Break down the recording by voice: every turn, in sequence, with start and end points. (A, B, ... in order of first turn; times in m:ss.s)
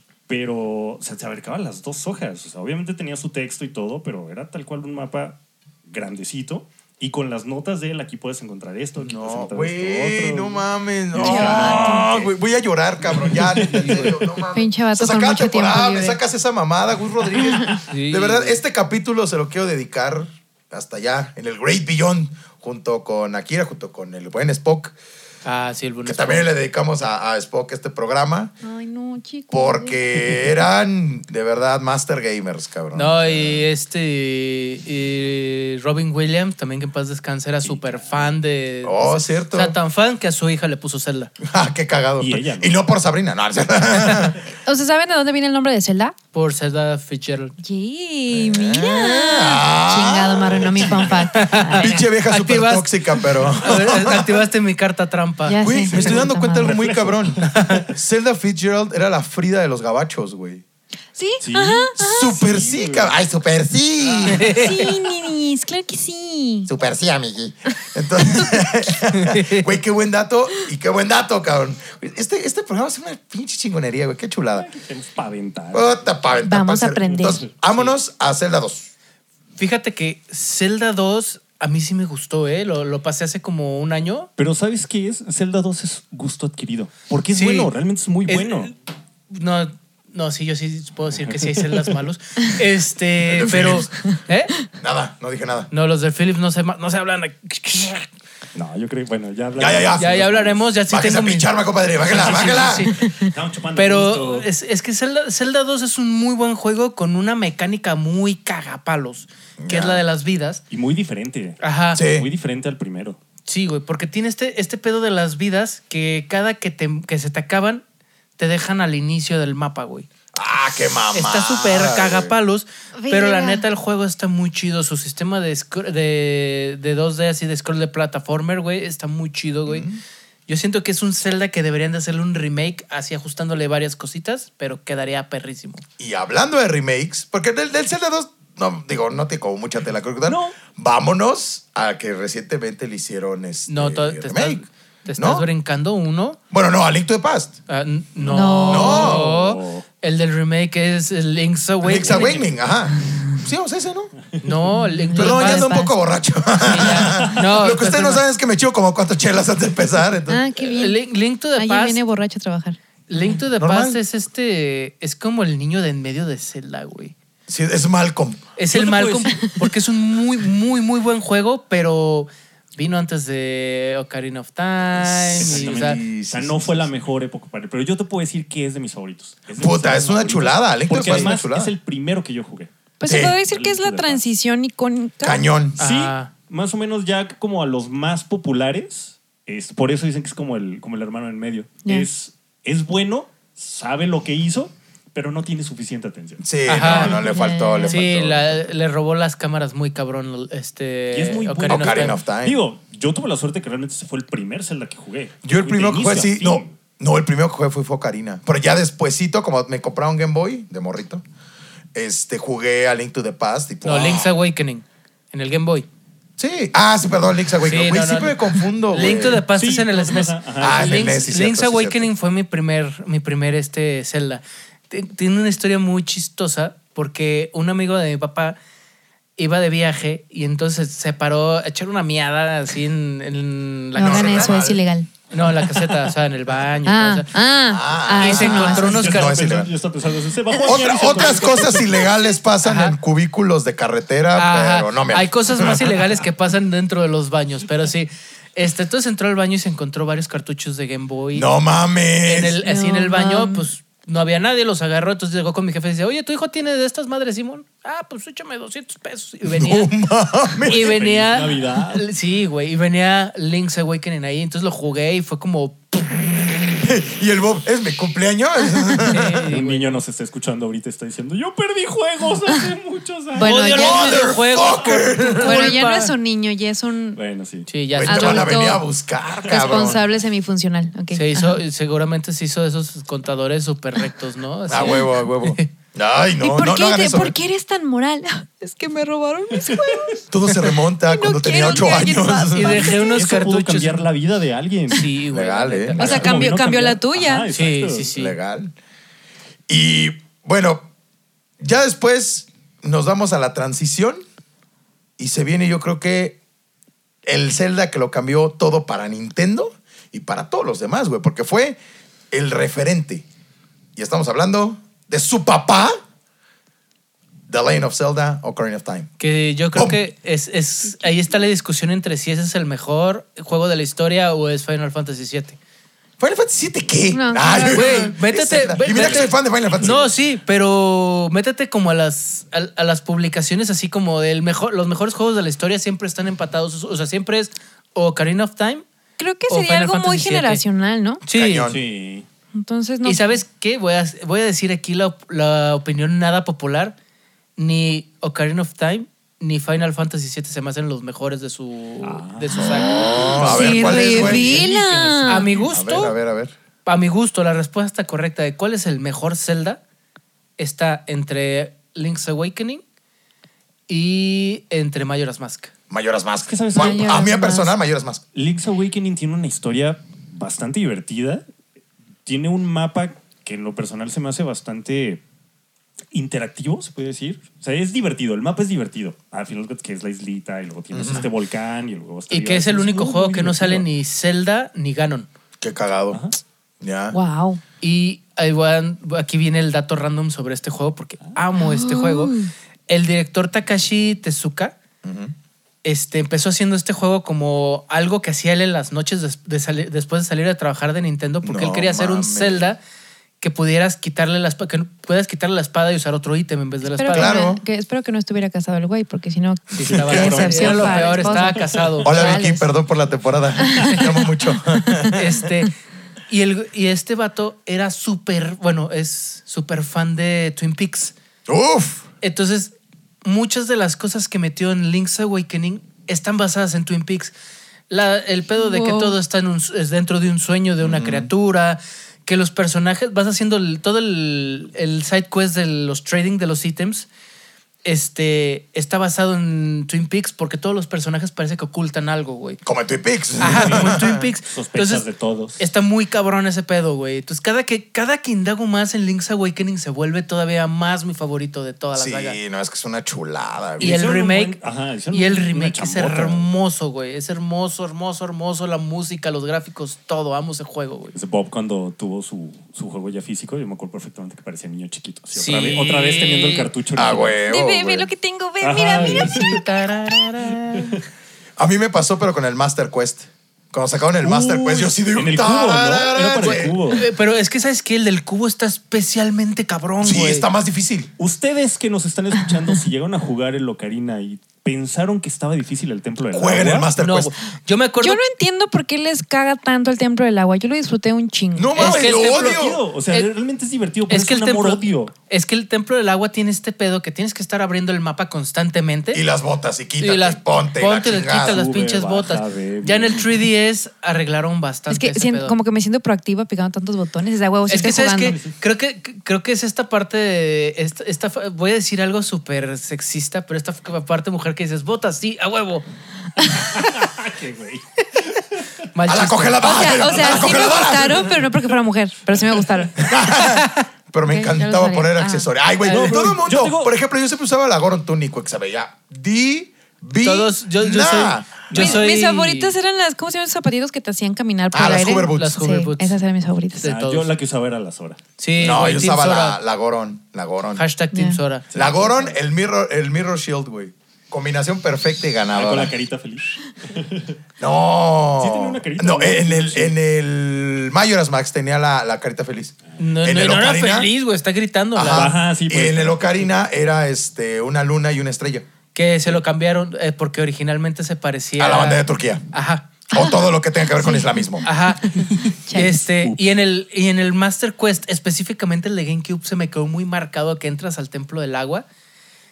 0:00.3-0:12.4 A
0:09.0-0:25.0 B
0:11.2-0:12.1 C
0:13.1-0:14.4 A
0:13.7-0:14.1 D
0:14.5-0:16.2 C
0:17.4-0:17.8 C
0:17.9-0:18.6 D
0:25.4-0:26.5 D
0:26.0-0:28.5 B
0:28.6-0:30.0 C
0:29.5-0:33.7 B
0:32.9-0:41.3 D
0:37.6-0:38.4 A
0:38.8-0:39.8 B
0:41.4-0:44.4 B
0:42.2-0:42.8 A
0:44.5-0:46.2 C
0:46.3-0:47.6 D
0:47.6-0:52.0 C
0:48.3-0:54.4 B
0:51.3-0:55.8 D
0:55.5-0:56.8 C
0:55.6-1:00.6 B
0:55.9-0:57.9 A
0:57.4-0:57.9 D
1:01.2-1:02.6 C
1:01.4-1:03.2 A
1:02.0-1:04.6 B
1:04.3-1:04.8 D
1:04.4-1:06.7 C
1:06.7-1:14.7 B
1:08.2-1:08.7 C
1:09.1-1:09.7 D
1:14.5-1:16.4 A
1:15.7-1:18.9 B
1:16.4-1:17.4 C
1:17.1-1:18.0 A
1:19.6-1:24.3 D
1:24.4-1:28.7 A
1:27.3-1:27.7 D
1:28.3-1:28.7 D
1:29.3-1:34.5 D
1:31.3-1:31.9 A
1:33.2-1:34.1 B
1:34.8-1:35.7 B
1:35.7-1:38.1 D
1:38.6-1:40.6 A
1:39.6-1:40.1 B
1:40.0-1:41.5 D
1:40.9-1:42.9 B
1:42.0-1:43.0 D
1:42.1-1:44.5 A
1:43.8-1:50.6 D
1:49.6-1:50.0 B
1:50.7-1:53.2 A
1:51.6-1:52.0 D
1:52.0-1:52.3 B
1:53.5-1:57.8 D
1:58.4-2:00.1 D
2:00.3-2:02.3 B
2:01.1-2:09.9 D
2:03.0-2:03.6 C
2:09.7-2:10.0 B
2:10.5-2:15.8 D
2:16.0-2:24.6 B
2:20.2-2:20.5 A
2:23.7-2:26.4 D
2:25.2-2:25.5 B
2:26.5-2:27.6 B
2:27.7-2:32.4 D
2:28.2-2:29.8 A
2:28.3-2:29.1 C
2:28.7-2:29.3 B
2:31.8-2:34.1 B
2:32.0-2:32.5 A
2:34.4-2:35.7 D
2:34.7-2:35.9 C
2:35.1-2:40.5 B
2:36.6-2:38.2 D
2:40.3-2:41.0 C
2:40.6-2:42.0 D
2:41.6-2:42.8 C
2:43.1-2:47.1 D
2:43.6-2:44.0 B
2:47.5-2:48.4 B
2:48.6-2:56.0 D
2:48.7-2:49.5 A
2:54.9-2:56.9 B
2:55.4-3:02.7 A
2:59.6-3:01.7 B
3:03.0-3:05.4 C
3:03.1-3:03.4 B
3:03.4-3:04.2 A
3:05.2-3:05.8 B
3:05.8-3:06.3 D
3:05.8-3:16.4 A
3:16.4-3:18.6 B
3:16.6-3:17.3 D
3:16.8-3:18.0 C
3:17.9-3:22.2 D
3:21.1-3:26.7 A
3:21.7-3:22.6 B
3:25.4-3:31.2 B
3:31.9-3:34.3 B
3:33.8-3:35.9 D
3:36.4-3:39.4 B
3:37.6-3:48.6 D
3:39.0-3:41.4 A
3:40.6-3:42.1 B
3:49.4-3:54.6 D
3:54.0-3:55.1 C
3:54.0-3:54.8 B
3:55.3-3:57.3 D
3:56.9-3:59.0 C
3:57.6-3:59.7 B
3:58.2-3:59.5 D
3:58.5-4:02.0 A
4:00.6-4:06.0 B
4:02.6-4:03.0 D
4:04.4-4:11.5 D
4:11.3-4:12.6 B
4:12.2-4:19.9 D
4:12.6-4:13.6 C
4:19.5-4:20.9 B
4:20.6-4:22.1 A
4:20.6-4:26.5 D
4:26.8-4:29.4 B
4:29.0-4:30.0 D
4:29.5-4:33.6 A
4:33.4-4:34.3 C
4:33.4-4:36.1 D
4:33.7-4:35.8 B
4:34.8-4:35.3 A
4:35.4-4:37.2 C
4:37.1-4:37.7 A
4:37.7-4:38.7 D
4:38.0-4:40.0 B
4:38.0-4:38.9 C
4:39.4-4:39.9 A
4:39.5-4:41.6 C
4:41.1-4:45.7 D
4:44.7-4:47.4 B
4:46.4-4:50.2 C
4:49.6-4:49.9 A
4:50.3-4:52.9 B
4:51.0-4:53.2 C
4:52.5-4:54.1 D
4:52.6-4:55.1 A
4:54.9-4:56.4 D
4:55.3-4:56.3 B
4:56.0-4:57.5 C
4:56.0-4:58.1 A
4:57.5-4:58.4 D
4:58.1-4:58.7 B
4:59.7-5:00.9 B
5:01.6-5:04.2 B
5:05.2-5:06.4 B
5:07.2-5:11.8 B
5:12.3-5:13.2 B
5:14.0-5:16.0 B
5:17.5-5:19.1 B
5:19.2-5:25.6 D
5:19.7-5:20.0 B
5:26.2-5:30.1 B
5:27.1-5:28.1 C
5:27.6-5:38.8 D
5:28.9-5:29.3 A
5:39.2-5:41.2 C
5:39.5-5:40.6 D
5:41.2-5:41.7 D
5:41.3-5:41.8 B
5:41.6-5:42.3 A
5:42.5-5:43.3 C
5:43.0-5:47.0 D
5:47.6-5:56.2 D
5:52.0-5:54.6 A
5:52.6-5:54.7 B
5:52.7-5:55.6 C
5:55.7-5:56.5 B
5:56.8-5:59.8 D
6:00.6-6:02.8 D
6:03.9-6:05.7 D
6:05.9-6:08.2 B
6:06.5-6:07.3 A
6:06.8-6:07.7 C
6:08.3-6:11.4 A
6:12.3-6:15.2 A
6:16.1-6:23.9 A
6:20.9-6:21.3 B
6:22.3-6:25.3 D
6:25.6-6:26.2 B
6:26.1-6:26.4 A
6:26.8-6:27.2 B
6:27.1-6:27.6 C
6:27.8-6:32.4 D
6:31.6-6:32.5 C
6:32.9-6:34.8 D
6:35.0-6:35.3 B
6:35.8-6:42.8 D
6:41.4-6:42.7 B
6:43.4-6:47.4 D
6:46.9-6:52.6 C
6:47.1-6:47.6 B
6:49.8-6:52.5 D
6:49.8-6:52.0 A
6:50.0-6:50.4 B
6:52.0-6:55.4 B
6:53.7-6:54.2 C
6:55.1-6:55.8 D
6:56.3-7:01.1 D
7:01.5-7:02.1 B
7:02.2-7:07.4 D
7:07.9-7:17.1 D
7:08.6-7:09.2 C
7:10.8-7:11.3 B
7:17.8-7:22.6 D
7:22.6-7:24.3 B
7:23.4-7:25.0 D
7:23.4-7:25.6 A
7:25.6-7:32.4 D
7:32.0-7:34.1 B
7:33.8-7:36.5 A
7:33.8-7:34.6 D
7:35.1-7:41.1 D
7:41.1-7:47.4 A
7:45.3-7:46.7 D
7:47.0-7:48.1 B
7:47.5-7:49.6 C
7:48.6-7:49.6 A
7:48.9-7:51.0 D
7:50.5-7:51.0 A
7:51.6-7:56.8 B
7:54.2-7:57.1 A
7:56.4-8:00.5 D
8:00.0-8:01.1 B
8:01.2-8:06.9 A
8:06.3-8:07.3 B
8:07.0-8:08.2 D
8:08.0-8:11.9 C
8:11.6-8:12.8 B
8:11.8-8:13.3 D
8:11.8-8:15.1 A
8:14.1-8:19.2 D
8:19.1-8:21.6 B
8:20.0-8:25.6 D
8:21.1-8:23.5 A
8:24.9-8:28.4 C
8:27.7-8:28.6 A
8:27.7-8:35.8 D
8:36.6-8:38.7 A
8:38.9-8:40.0 D
8:39.1-8:41.4 B
8:39.6-8:43.6 C
8:40.0-8:41.8 A
8:42.3-8:42.9 A
8:43.0-8:51.7 B
8:43.4-8:43.8 D
8:44.2-8:45.5 C
8:45.8-8:46.4 D
8:45.9-8:46.9 A
8:50.2-8:52.8 D
8:51.7-8:52.1 A
8:51.7-8:56.8 C
8:54.7-8:55.6 B
8:55.4-8:56.2 D
8:56.8-8:57.3 D
8:56.8-8:58.9 A
8:58.4-8:59.6 D
8:58.6-9:00.8 B
9:00.8-9:01.6 D
9:01.1-9:01.4 C
9:01.7-9:02.4 A
9:01.7-9:05.9 B
9:05.5-9:07.4 A
9:07.6-9:14.1 B
9:08.4-9:10.0 A
9:13.0-9:15.3 D
9:15.0-9:18.6 B
9:15.0-9:16.5 A
9:19.0-9:22.9 D
9:21.6-9:22.4 B
9:23.1-9:24.6 B
9:23.1-9:26.0 C
9:24.6-9:31.9 D